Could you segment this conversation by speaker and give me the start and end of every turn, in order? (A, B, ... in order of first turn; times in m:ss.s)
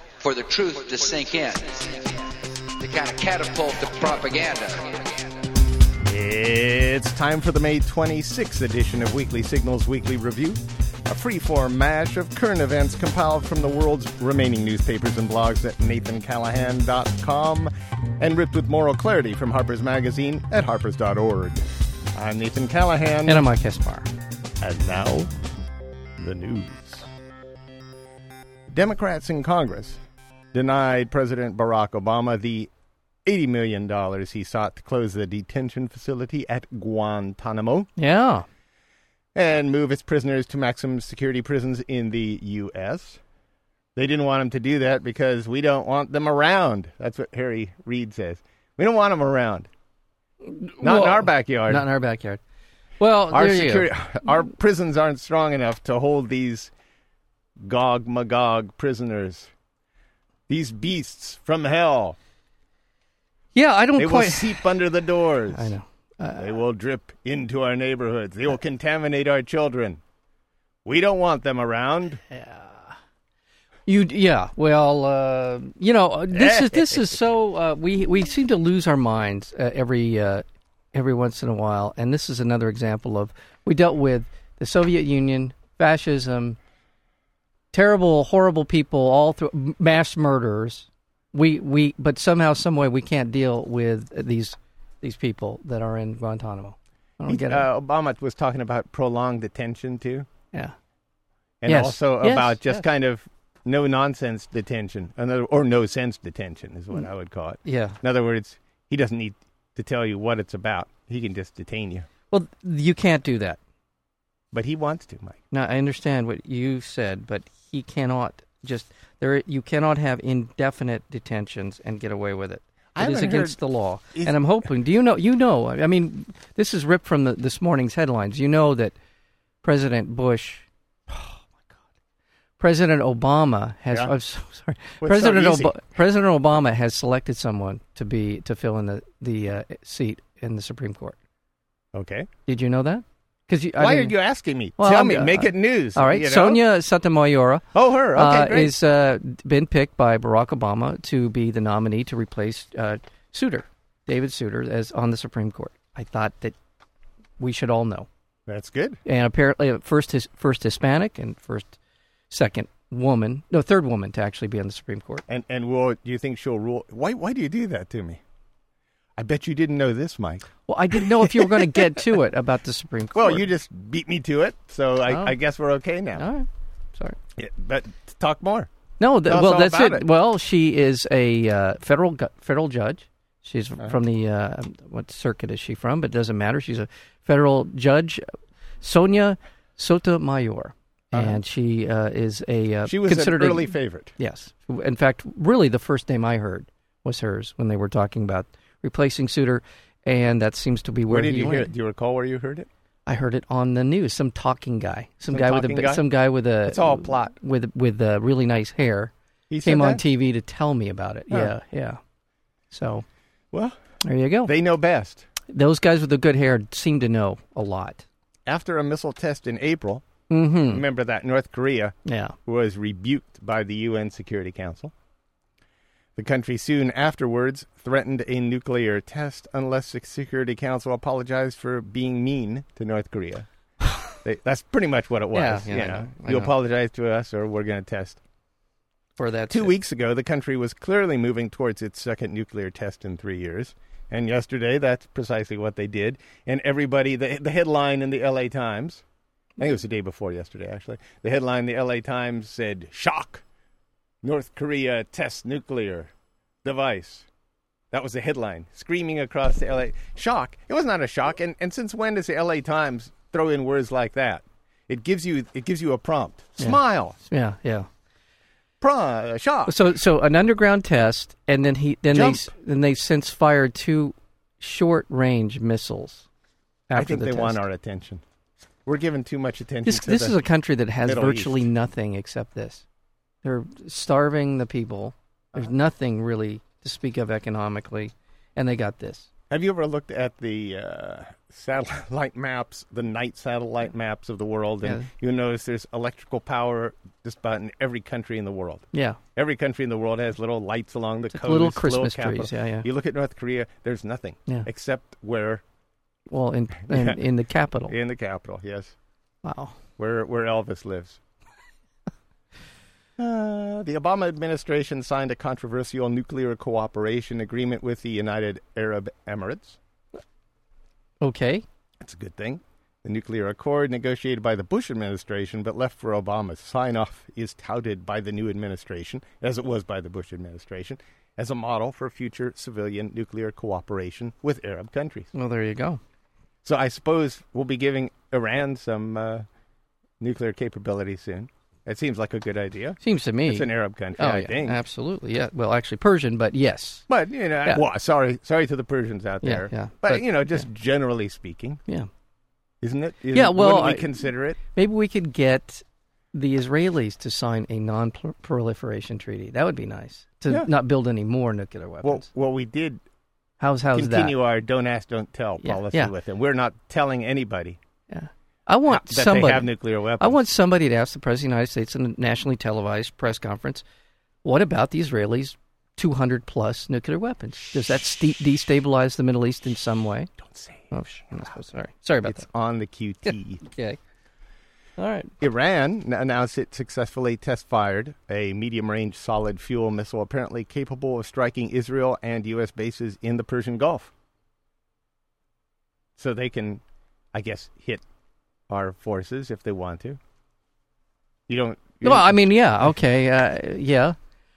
0:00.2-0:05.3 A
0:06.0-0:23.5 B
0:23.3-0:24.1 C
0:24.6-0:25.3 B
0:26.2-0:27.1 B
0:28.7-0:30.0 B
0:30.5-0:32.7 B
0:33.2-0:37.9 B
0:38.0-0:38.5 C
0:39.4-0:43.2 B
0:44.0-0:49.7 B
0:50.4-0:52.4 C
0:50.8-0:51.8 B
0:53.0-0:53.9 C
0:53.3-0:56.7 B
0:57.6-0:59.5 B
1:00.5-1:02.2 B
1:03.6-1:04.8 C
1:04.0-1:05.7 B
1:05.5-1:06.6 C
1:06.4-1:10.0 B
1:10.8-1:12.2 B
1:12.3-1:13.0 C
1:13.9-1:26.6 C
1:16.3-1:17.1 B
1:27.7-1:37.7 C
1:37.3-1:40.3 B
1:41.6-1:52.1 B
1:41.7-1:42.8 C
1:47.6-1:48.0 C
1:52.3-1:53.6 C
1:54.5-1:55.4 B
1:55.5-2:09.0 C
2:03.0-2:03.6 B
2:04.1-2:04.4 B
2:09.6-2:11.5 C
2:12.6-2:21.2 C
2:15.0-2:15.8 B
2:21.9-2:22.3 B
2:22.5-2:24.2 C
2:23.8-2:26.6 B
2:24.8-2:36.6 C
2:27.7-2:28.8 B
2:37.4-2:38.1 C
2:38.5-2:39.0 B
2:39.0-2:41.7 C
2:42.3-2:45.2 C
2:45.3-2:48.2 B
2:49.2-2:52.2 B
2:50.7-2:53.5 C
2:53.2-2:56.2 B
2:55.1-2:55.4 C
2:56.2-2:57.2 C
2:57.4-2:58.7 B
2:59.0-3:08.2 C
2:59.2-3:00.1 B
3:08.8-3:21.7 C
3:11.1-3:11.4 B
3:12.9-3:14.1 B
3:21.1-3:22.7 B
3:23.1-3:29.1 C
3:25.3-3:26.0 B
3:26.6-3:27.3 B
3:29.5-3:30.0 B
3:29.6-3:32.0 C
3:32.7-3:33.1 C
3:33.5-3:33.8 B
3:34.0-3:34.5 C
3:34.4-3:35.3 B
3:35.5-3:38.0 C
3:38.5-3:40.0 B
3:40.3-3:40.8 C
3:40.7-3:44.9 B
3:42.1-3:42.4 C
3:46.2-3:53.5 B
3:54.1-3:58.2 B
3:55.3-3:56.5 C
3:59.2-3:59.7 C
3:59.5-4:09.0 B
4:09.6-4:13.4 B
4:14.2-4:16.1 B
4:16.6-4:17.3 B
4:17.9-4:27.2 B
4:26.6-4:27.9 C
4:28.8-4:29.8 B
4:29.7-4:36.3 C
4:32.1-4:32.5 B
4:36.9-4:37.6 C
4:37.0-4:38.2 B
4:38.8-4:40.4 B
4:39.9-4:42.8 C
4:41.0-4:41.7 B
4:43.4-4:49.3 C
4:49.5-5:05.6 B
4:54.8-4:55.1 C
4:58.9-4:59.2 C
5:01.3-5:02.9 C
5:06.3-5:08.0 C
5:06.9-5:07.2 B
5:07.9-5:09.0 B
5:09.4-5:09.8 C
5:10.0-5:11.2 B
5:13.2-5:19.8 B
5:21.2-5:21.6 C
5:22.0-5:35.3 B
5:35.3-5:36.0 C
5:36.6-5:39.5 B
5:40.2-5:44.8 B
5:43.0-5:47.1 C
5:47.1-5:51.8 B
5:49.4-5:50.6 C
5:52.8-5:54.6 B
5:53.3-6:02.3 C
6:02.0-6:03.0 B
6:03.6-6:04.4 C
6:03.9-6:07.8 B
6:05.6-6:06.1 C
6:08.1-6:13.8 C
6:08.9-6:10.4 B
6:14.4-6:20.3 C
6:20.4-6:20.9 B
6:20.9-6:22.4 C
6:22.2-6:23.6 B
6:23.6-6:24.0 C
6:25.0-6:25.3 C
6:25.4-6:34.1 B
6:36.2-6:36.8 B
6:37.3-6:38.0 B
6:38.7-6:40.2 B
6:41.5-6:42.5 B
6:42.0-6:44.2 C